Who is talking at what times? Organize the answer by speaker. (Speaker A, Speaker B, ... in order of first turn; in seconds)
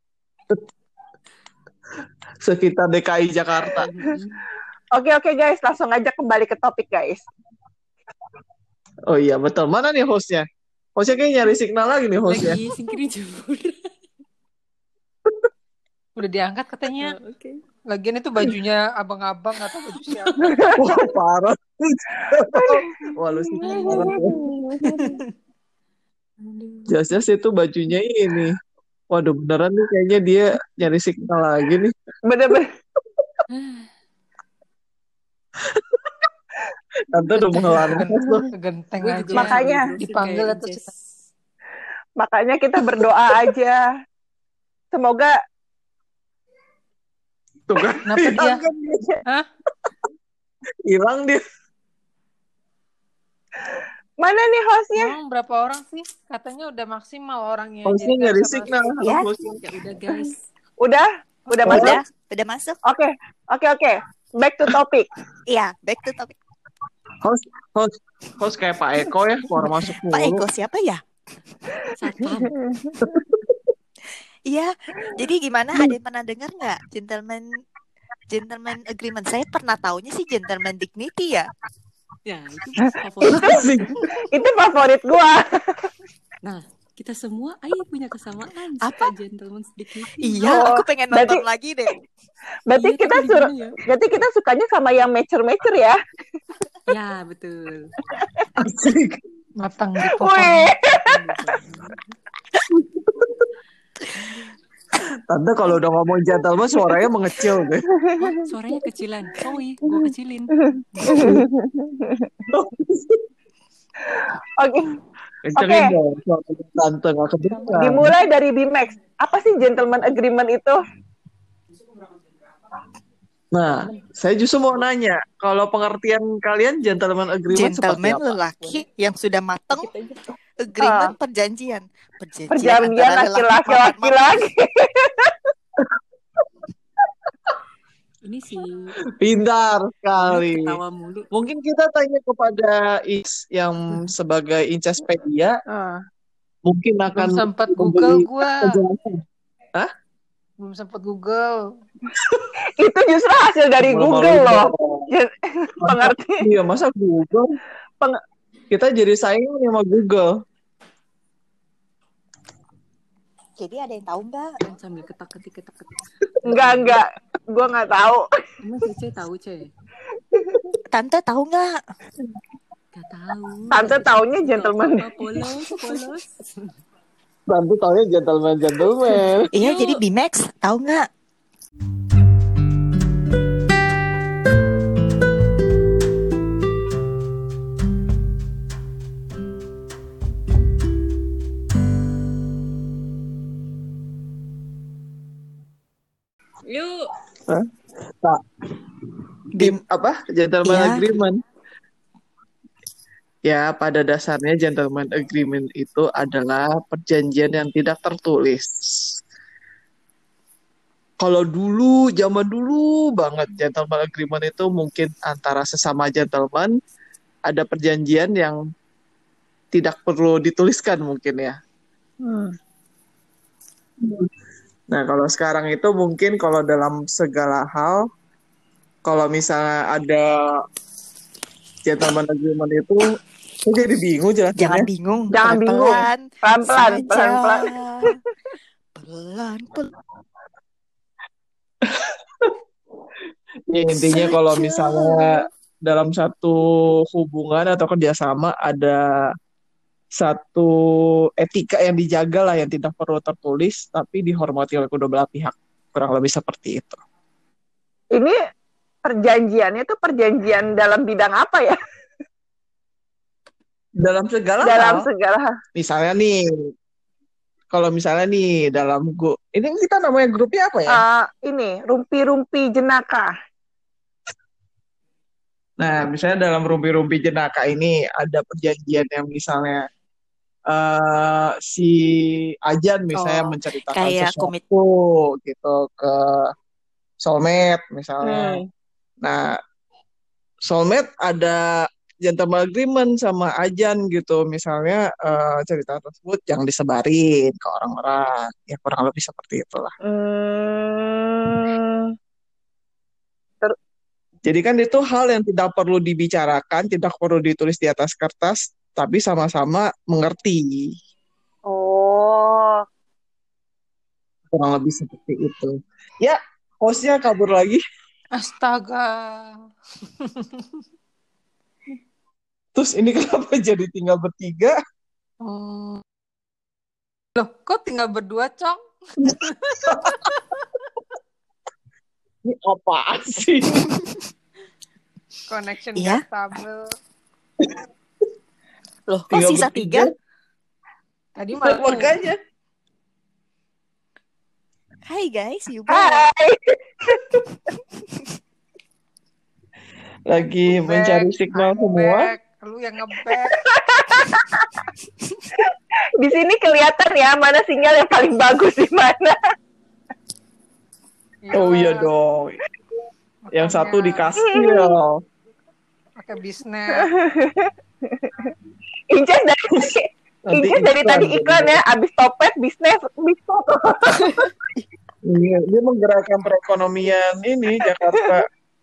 Speaker A: 2.4-3.9, 9.1-12.6, 20.4-24.4, 26.9-28.6, 29.1-31.9, 37.1-38.5, 47.7-49.2, 50.9-51.4, 57.9-59.6, 61.7-62.0, 67.2-70.5, 73.0-73.5, 83.2-84.1, 98.6-99.2, 102.6-103.5, 105.0-107.8, 111.0-111.4, 112.5-113.2, 115.5-118.1, 123.5-128.3, 139.2-140.8, 141.3-145.6, 146.7-149.2, 153.8-155.1, 155.8-157.5, 158.7-160.3, 177.5-179.5, 199.6-201.4, 203.4-209.2, 211.2-216.7, 217.5-218.6, 219.7-221.6, 224.0-224.3, 224.9-228.1, 229.1-230.5, 231.8-234.9, 241.9-242.5, 243.7-249.0, 250.2-250.7, 251.4-257.0, 264.0-265.1, 265.8-266.4, 267.7-271.0, 275.8-279.8, 280.7-286.5, 287.2-288.6, 289.2-289.6, 290.6-299.9, 304.4-310.9, 314.5-317.8, 322.8-324.8, 332.4-333.9, 339.3-340.1, 341.6-342.4, 350.3-352.3, 361.5-362.6, 363.5-365.2, 370.5-371.8, 375.2-378.5
Speaker B: 3.7-4.4, 12.3-13.9, 16.9-17.6, 23.6-24.5, 26.4-26.9, 33.5-33.9, 37.5-37.9, 39.0-40.9, 59.6-60.4, 72.0-72.5, 82.3-84.0, 86.4-90.5, 92.8-93.8, 96.9-97.9, 100.9-102.0, 108.2-111.4, 117.5-117.8, 129.7-130.2, 138.2-139.0, 140.2-141.3, 164.6-167.0, 168.6-169.7, 172.9-176.7, 179.6-180.0, 196.7-197.1
Speaker C: 4.9-7.2, 22.6-22.9, 23.7-25.1, 32.3-32.7, 39.3-40.0, 42.2-43.8, 44.9-45.3, 53.7-55.2, 60.8-62.0, 62.9-65.1, 72.4-73.0, 83.2-83.6, 84.2-85.9, 90.5-91.4, 92.7-96.0, 100.2-101.6, 108.0-108.5, 110.6-112.3, 114.1-114.9, 115.6-115.9, 117.8-120.8, 130.8-131.2, 132.5-135.3, 152.8-156.4, 166.5-168.2, 170.3-170.6, 173.7-175.1, 222.2-222.5, 235.3-237.7, 259.1-261.8, 264.6-265.5, 270.9-273.3, 288.2-288.7, 300.0-302.1, 311.7-312.8, 345.9-347.2, 353.5-354.7, 356.2-359.4, 364.4-364.9, 367.0-368.5, 369.1-374.5
Speaker D: 16.2-17.2, 17.9-20.6, 37.8-40.9, 48.1-48.6, 55.0-59.0, 99.6-100.7, 145.7-146.0, 147.2-148.8, 150.6-151.6, 318.4-319.5, 325.4-326.0, 327.4-330.4, 335.5-336.8, 341.4-342.2, 350.7-353.5, 361.4-362.1, 363.4-364.4, 366.2-367.1
Speaker E: 59.0-59.3, 61.6-62.8, 65.5-66.3, 69.6-71.0, 74.5-77.5, 78.3-81.5, 88.8-89.1, 90.2-91.9, 127.5-129.9, 130.6-134.3, 163.6-164.5, 170.9-171.8, 179.5-181.1, 199.6-199.8, 200.6-201.1, 234.6-238.2, 239.0-239.9, 243.9-245.5, 283.1-284.6, 333.9-334.2, 336.0-336.2, 339.1-340.1, 345.1-346.3